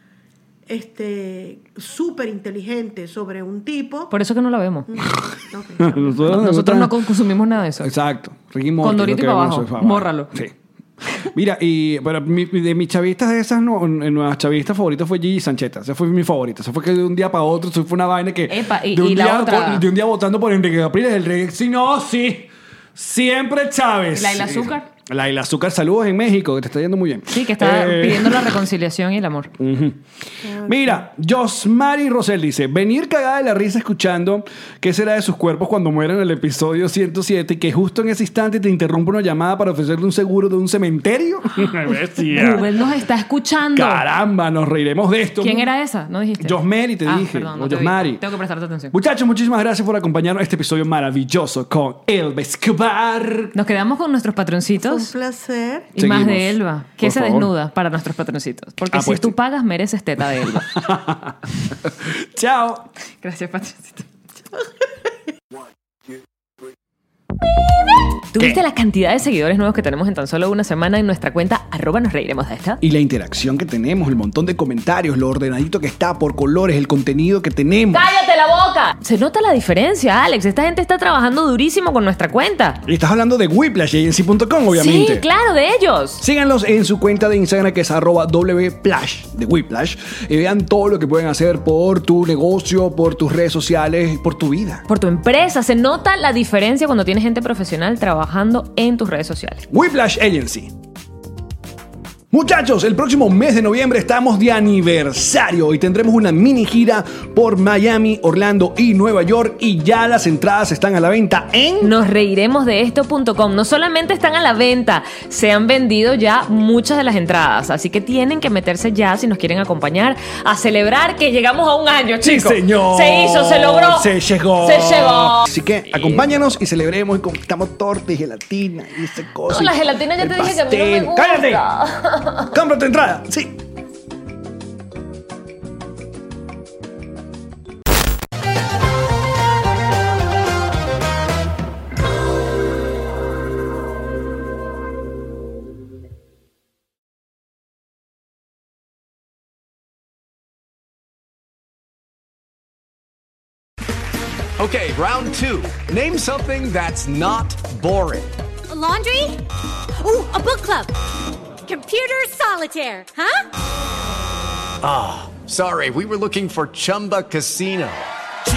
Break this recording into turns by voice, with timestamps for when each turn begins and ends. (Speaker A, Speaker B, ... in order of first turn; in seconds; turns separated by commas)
Speaker A: 0.7-4.1, Speaker B: 4.1-4.9, Speaker A: 4.9-6.2, Speaker C: 5.8-7.1, Speaker B: 6.2-7.9, Speaker C: 7.8-28.6, Speaker B: 8.8-10.3, Speaker B: 18.5-19.8, Speaker B: 24.1-24.9, Speaker B: 27.3-29.5, Speaker C: 29.6-30.0, Speaker A: 30.4-31.1, Speaker C: 30.6-42.7, Speaker B: 41.6-44.0, Speaker C: 43.7-45.7, Speaker B: 45.4-48.9, Speaker C: 46.4-48.2, Speaker C: 48.9-53.5, Speaker B: 53.5-55.1, Speaker A: 54.7-55.9, Speaker B: 55.9-60.8, Speaker C: 56.0-57.5, Speaker C: 58.9-59.4, Speaker C: 60.4-62.9, Speaker B: 63.2-64.1, Speaker B: 68.3-72.8, Speaker C: 72.8-78.1, Speaker B: 77.9-82.8, Speaker C: 82.8-85.2, Speaker B: 84.7-86.2, Speaker C: 86.2-94.8, Speaker B: 94.9-99.6, Speaker C: 99.7-100.7, Speaker C: 102.3-111.9, Speaker B: 111.8-126.2, Speaker C: 122.2-131.7, Speaker B: 129.5-132.5, Speaker C: 132.5-133.6, Speaker D: 154.6-158.3, Speaker E: 158.7-161.0, Speaker E: 161.6-163.4, Speaker D: 164.8-168.1